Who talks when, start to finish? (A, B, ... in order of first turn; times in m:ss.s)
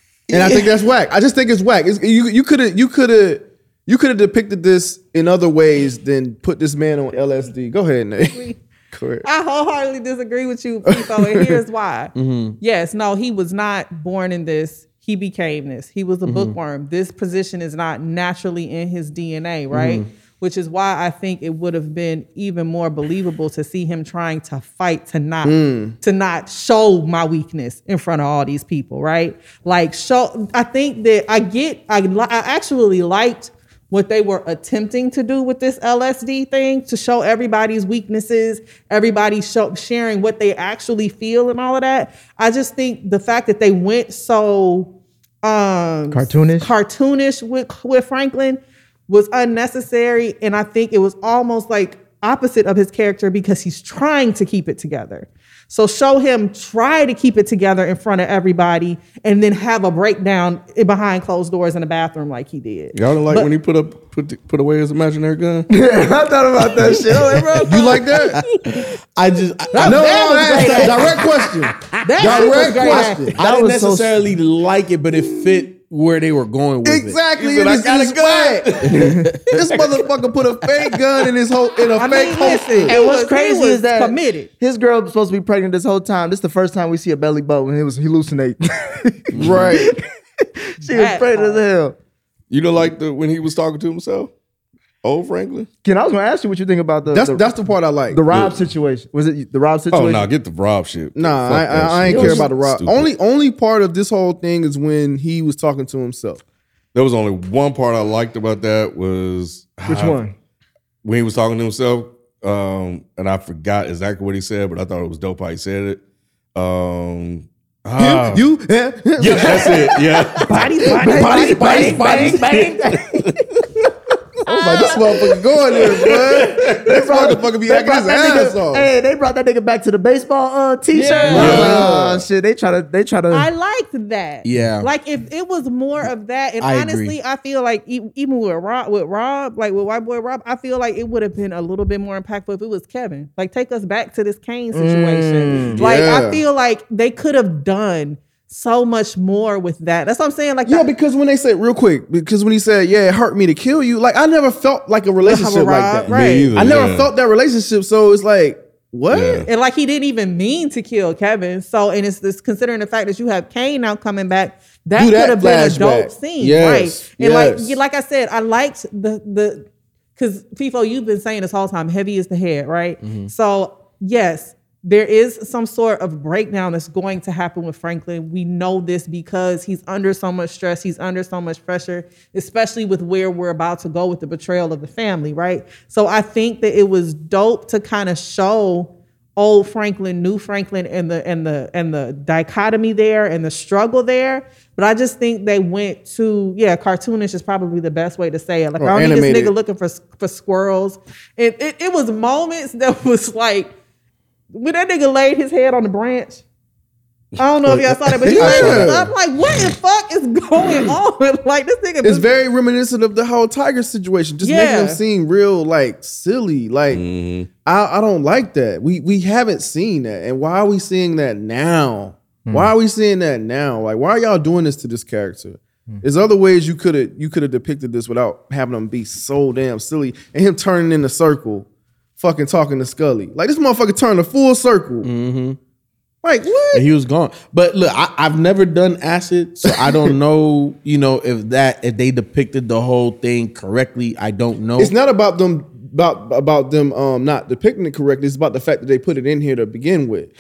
0:00.3-0:00.8 A
0:00.3-0:09.3 B
0:09.2-1:03.5 C
0:10.9-0:11.6 B
0:12.2-0:12.6 A
0:16.3-0:16.6 A
0:19.7-0:20.1 A
0:25.4-0:26.0 B
0:46.1-0:46.7 D
1:02.9-1:05.7 E
1:05.7-1:08.0 D
1:07.6-1:08.4 B
1:08.4-1:17.2 A
1:09.7-1:10.9 C
1:09.8-1:11.2 D
1:09.8-1:13.4 B
1:12.0-1:13.3 C
1:13.3-1:14.2 D
1:16.8-1:23.0 B
1:17.4-1:19.2 E
1:18.9-1:19.8 A
1:18.9-1:19.2 D
1:22.0-1:24.5 C
1:22.9-1:32.0 D
1:29.3-1:29.8 A
1:29.4-1:30.0 B
1:30.8-1:31.6 C
1:32.5-1:34.3 E
1:35.0-1:35.7 E
1:35.8-1:37.5 D
1:37.1-1:38.2 B
1:38.1-1:40.3 D
1:38.3-1:38.6 E
1:39.9-1:43.1 E
1:41.2-1:46.4 B
1:42.0-1:42.5 D
1:46.9-1:50.2 E
1:49.9-1:50.3 D
1:51.0-1:56.0 E
1:56.6-1:58.5 E
1:58.0-2:00.0 B
1:59.2-2:03.9 E
1:59.3-2:03.6 D
2:00.5-2:01.6 C
2:00.8-2:02.3 B
2:04.5-2:08.9 B
2:04.5-2:04.9 C
2:04.5-2:05.2 D
2:06.0-2:06.9 E
2:06.7-2:13.5 D
2:11.0-2:11.8 A
2:11.0-2:11.6 C
2:11.3-2:11.9 E
2:11.3-2:12.2 B
2:13.3-2:30.9 C
2:14.4-2:14.9 A
2:16.6-2:17.2 A
2:24.7-2:25.9 D
2:25.7-2:26.4 B
2:30.7-2:39.5 B
2:35.2-2:36.5 C
2:36.1-2:37.1 E
2:39.1-2:39.5 E
2:39.5-3:23.7 C
2:45.0-2:47.8 B
2:53.0-2:53.3 A
3:18.8-3:19.5 B
3:24.5-3:26.4 C
3:27.4-3:32.3 C
3:28.2-3:29.1 B
3:28.3-3:28.9 E
3:32.0-3:37.1 B
3:34.4-3:35.0 C
3:36.9-3:37.5 E
3:37.6-3:51.7 B
3:52.2-3:55.1 B
3:55.0-3:55.6 A
3:56.2-3:56.8 B
3:56.7-4:04.9 A
3:59.7-4:00.1 B
4:04.8-4:10.3 B